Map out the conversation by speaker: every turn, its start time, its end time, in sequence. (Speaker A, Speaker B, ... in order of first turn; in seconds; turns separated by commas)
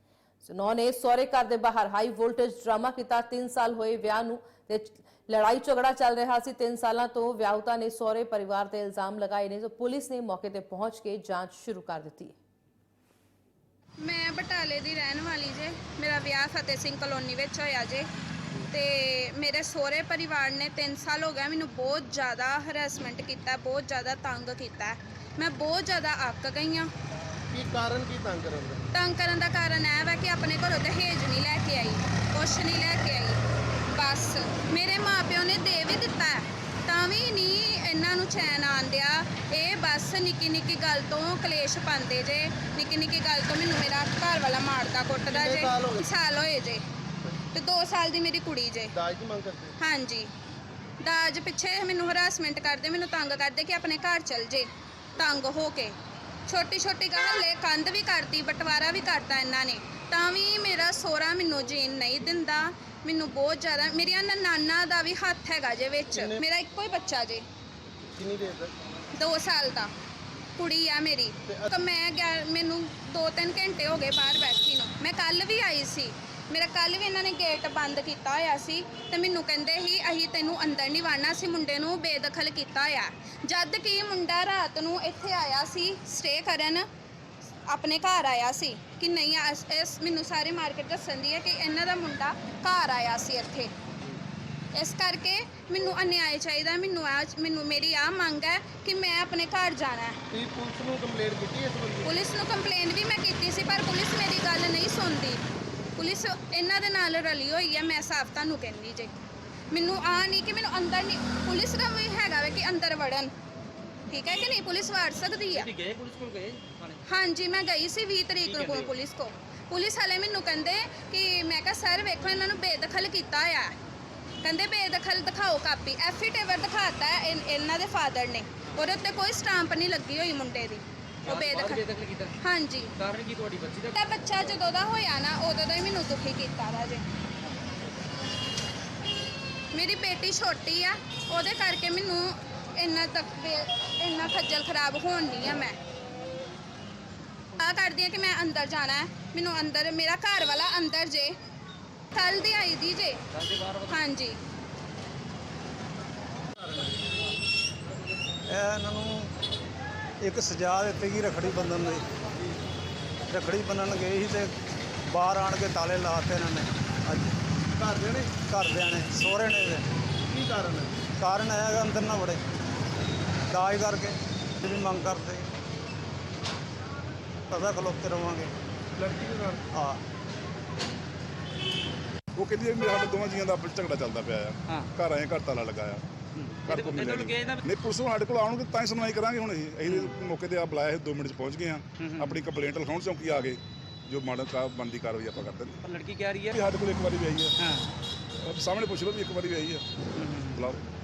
Speaker A: 0.4-12.4, Speaker B: 14.0-18.1, Speaker B: 18.7-26.9, Speaker C: 27.5-28.9, Speaker B: 28.9-33.4, Speaker B: 33.9-46.8, Speaker C: 45.3-46.0, Speaker B: 47.5-48.9, Speaker C: 48.9-49.8, Speaker B: 49.8-50.3, Speaker B: 51.0-56.0, Speaker B: 56.5-67.5, Speaker C: 66.1-66.4, Speaker C: 68.1-68.7, Speaker B: 69.2-69.9, Speaker B: 70.6-86.8, Speaker B: 87.7-93.7, Speaker B: 94.8-100.2, Speaker C: 100.3-102.1, Speaker B: 102.0-105.4, Speaker B: 106.0-109.2, Speaker B: 109.7-113.3, Speaker B: 114.1-115.7, Speaker D: 115.5-117.0, Speaker B: 117.1-123.7, Speaker D: 118.5-118.9, Speaker B: 124.4-131.9, Speaker D: 131.2-132.4, Speaker B: 132.4-132.9, Speaker D: 132.9-134.5, Speaker B: 133.9-137.1, Speaker B: 139.7-145.8, Speaker B: 147.6-151.4, Speaker B: 152.1-153.2, Speaker D: 153.3-153.9, Speaker B: 153.9-154.4, Speaker C: 156.6-157.0, Speaker E: 158.5-159.3, Speaker E: 160.2-162.1, Speaker E: 163.3-164.6, Speaker E: 165.1-167.4, Speaker C: 167.7-168.3, Speaker E: 168.4-169.9, Speaker C: 170.3-171.1, Speaker E: 171.2-172.4, Speaker E: 173.5-175.5, Speaker E: 177.5-178.5, Speaker C: 179.0-179.7, Speaker E: 179.7-180.0, Speaker F: 182.3-186.0, Speaker D: 186.3-187.6, Speaker F: 186.6-195.8, Speaker D: 189.9-190.1, Speaker D: 192.0-192.4, Speaker D: 195.8-196.6, Speaker F: 196.5-197.6, Speaker D: 197.6-197.9, Speaker F: 198.4-199.9, Speaker D: 200.1-200.7, Speaker F: 200.5-200.8